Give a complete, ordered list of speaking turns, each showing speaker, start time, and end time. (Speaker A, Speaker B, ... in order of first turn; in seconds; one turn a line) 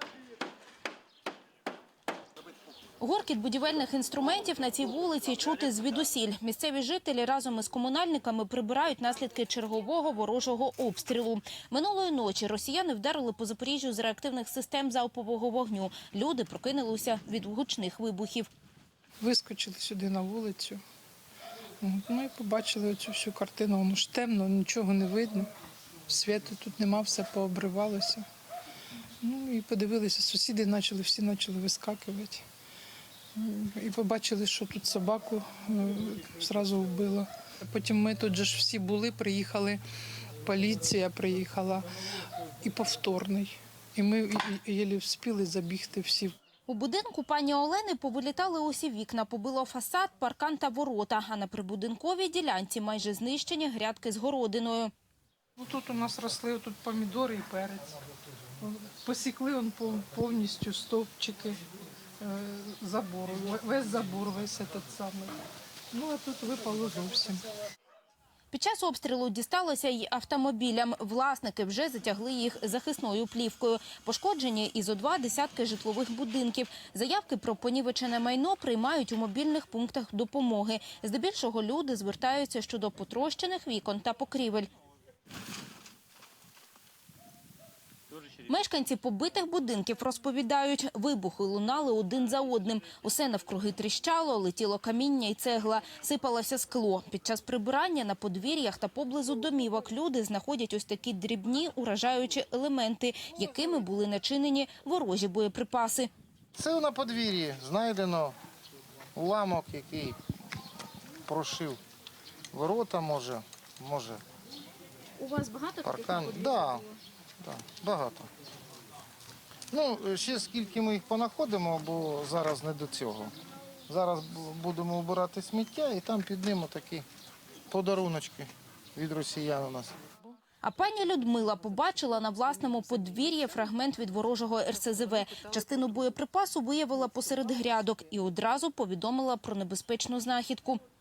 Speaker A: 3.0-18.5
Speaker B: 19.2-20.8
Speaker B: 21.8-25.5
Speaker B: 26.1-28.2
Speaker B: 29.2-32.5
Speaker B: 33.3-39.8
Speaker B: 40.4-41.9
Speaker B: 42.6-46.3
Speaker A: 46.7-54.9
Speaker B: 55.6-58.0
Speaker B: 58.6-61.6
Speaker B: 62.2-65.4
Speaker B: 65.9-67.5
Speaker A: 68.5-84.7
Speaker A: 88.5-106.1
Speaker C: 106.5-108.3
Speaker C: 109.2-110.2
Speaker C: 111.2-111.8
Speaker C: 112.5-114.2
Speaker A: 115.2-116.8
Speaker C: 115.8-116.8
Speaker C: 117.4-118.3
Speaker C: 119.7-123.3
Speaker C: 123.9-127.0
Speaker C: 127.7-129.9
Speaker A: 130.6-140.8